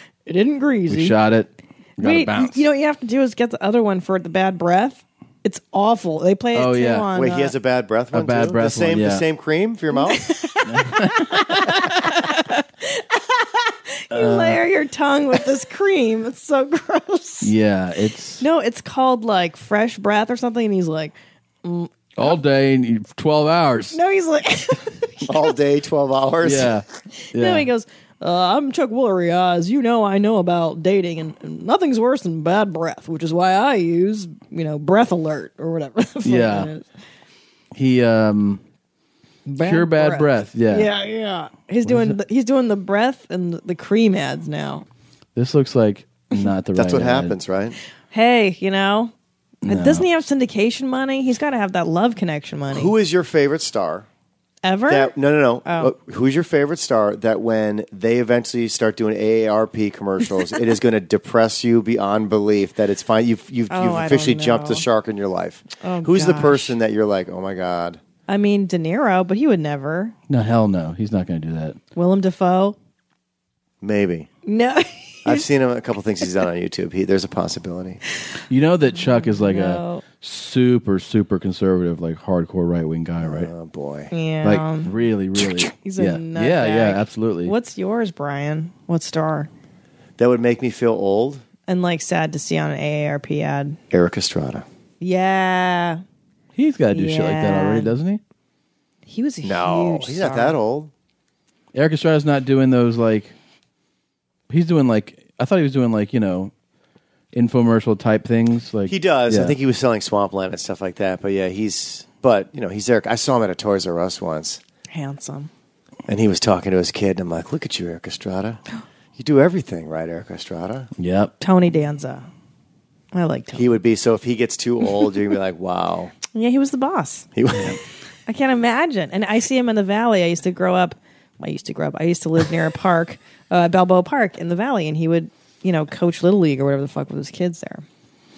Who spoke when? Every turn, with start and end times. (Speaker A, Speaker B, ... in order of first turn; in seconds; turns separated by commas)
Speaker A: 0.3-1.2, Speaker B: 0.9-2.6, Speaker A: 2.0-7.5, Speaker B: 6.5-7.1, Speaker C: 7.1-10.4, Speaker B: 8.1-9.2, Speaker A: 10.1-17.5, Speaker B: 10.7-11.9, Speaker B: 14.1-14.6, Speaker B: 17.4-18.4, Speaker A: 18.4-22.3, Speaker B: 22.2-24.0, Speaker A: 23.9-25.6, Speaker C: 25.3-26.7, Speaker B: 26.4-27.7, Speaker A: 27.3-36.9, Speaker B: 36.2-36.7, Speaker B: 37.7-38.6, Speaker A: 39.5-44.9, Speaker B: 39.6-40.9, Speaker B: 41.9-42.2, Speaker B: 45.4-47.4, Speaker C: 46.8-47.8, Speaker A: 48.1-49.1, Speaker B: 49.6-50.1, Speaker A: 49.7-52.9, Speaker C: 52.7-54.1, Speaker A: 54.6-55.9, Speaker C: 54.9-68.0, Speaker A: 63.7-64.9, Speaker A: 65.8-66.8, Speaker A: 68.3-70.2, Speaker B: 70.3-71.8, Speaker A: 72.0-72.8, Speaker C: 73.8-74.3, Speaker A: 74.5-75.5, Speaker C: 75.2-78.0, Speaker B: 78.5-83.5, Speaker A: 79.0-80.1, Speaker C: 83.2-84.1, Speaker A: 84.1-84.9, Speaker B: 84.4-87.5, Speaker A: 85.8-89.5, Speaker C: 90.2-91.4, Speaker A: 91.7-93.8, Speaker C: 93.9-94.7, Speaker A: 95.0-96.0, Speaker B: 96.5-98.2, Speaker A: 96.9-97.9, Speaker A: 99.1-100.6, Speaker C: 99.4-100.9, Speaker B: 101.7-103.3, Speaker B: 104.5-106.5, Speaker B: 107.3-109.5, Speaker C: 108.9-114.6, Speaker A: 114.9-115.5, Speaker C: 116.1-118.6, Speaker C: 119.2-120.9, Speaker B: 121.0-121.3, Speaker A: 121.4-122.3, Speaker A: 123.1-123.7, Speaker C: 123.5-126.2, Speaker A: 126.2-127.3, Speaker C: 127.4-127.8, Speaker A: 128.3-137.8